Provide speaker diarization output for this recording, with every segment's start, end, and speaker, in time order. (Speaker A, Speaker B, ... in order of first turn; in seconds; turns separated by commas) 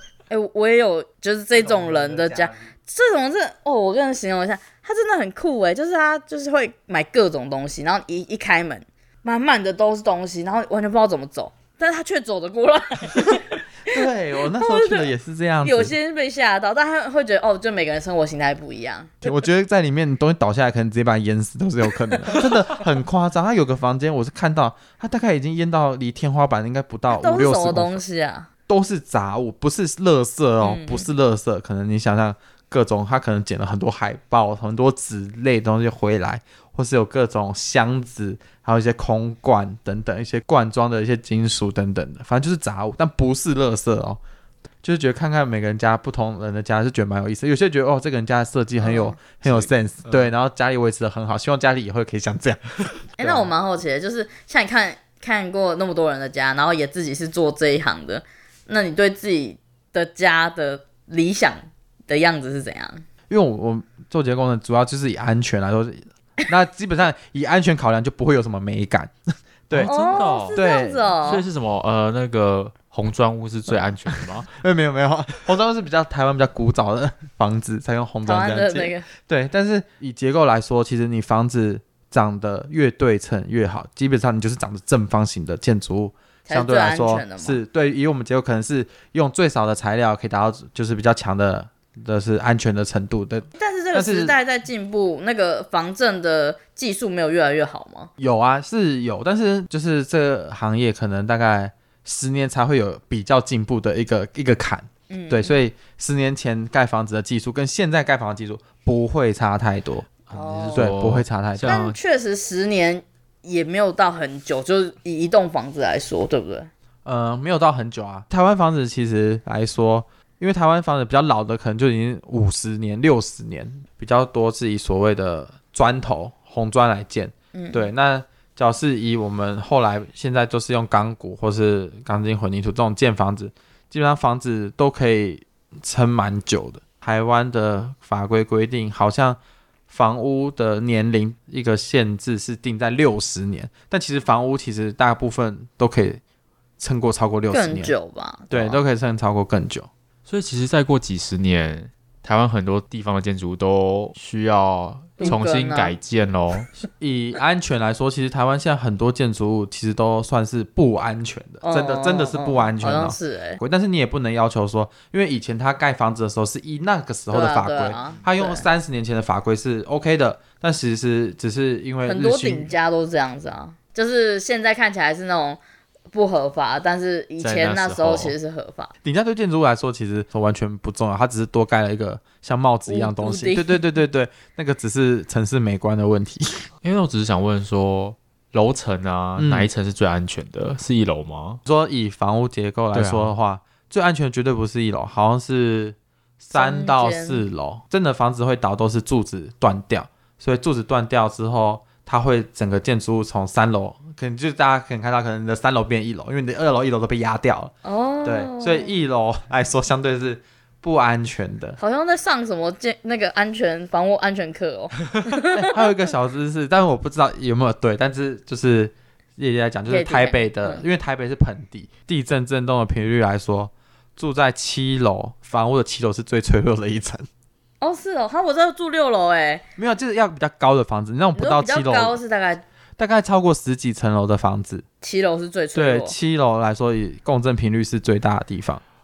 Speaker A: 0.3-15.1, Speaker B: 1.6-2.5, Speaker B: 13.8-15.9, Speaker A: 15.6-19.3, Speaker B: 19.2-28.0, Speaker A: 27.1-28.5, Speaker B: 28.7-44.2, Speaker A: 30.6-31.1, Speaker B: 44.8-53.5, Speaker A: 48.8-49.2, Speaker C: 49.5-50.3, Speaker A: 53.2-63.0, Speaker B: 63.3-69.1, Speaker B: 69.7-70.0, Speaker C: 69.7-70.6, Speaker A: 69.8-71.5, Speaker B: 70.5-71.1, Speaker C: 71.2-74.5, Speaker B: 74.1-94.4, Speaker A: 78.2-79.1, Speaker A: 86.5-87.6, Speaker A: 93.6-98.1, Speaker B: 98.2-110.1, Speaker A: 105.1-105.5, Speaker C: 110.3-112.0, Speaker A: 110.3-110.9, Speaker B: 110.8-111.8, Speaker A: 111.6-116.7, Speaker B: 117.0-146.2, Speaker A: 127.5-127.9, Speaker B: 146.8-147.9, Speaker A: 147.5-148.8, Speaker B: 148.5-149.9, Speaker C: 150.3-156.7, Speaker A: 155.2-155.9, Speaker B: 157.0-172.7, Speaker A: 161.6-163.6, Speaker A: 167.3-168.7, Speaker A: 172.1-175.6, Speaker A: 176.1-178.9, Speaker C: 177.4-178.3, Speaker B: 179.0-186.7, Speaker A: 182.9-183.8, Speaker C: 186.8-191.6, Speaker B: 189.4-189.7, Speaker B: 191.7-207.7, Speaker C: 192.9-193.3, Speaker A: 196.5-197.4, Speaker A: 207.8-208.9, Speaker B: 208.2-211.8, Speaker A: 211.8-215.9, Speaker B: 215.5-227.3, Speaker A: 219.9-220.8, Speaker A: 227.8-229.6, Speaker B: 229.8-232.2, Speaker A: 231.4-232.6, Speaker B: 233.0-234.8, Speaker A: 235.0-236.1, Speaker B: 235.8-238.8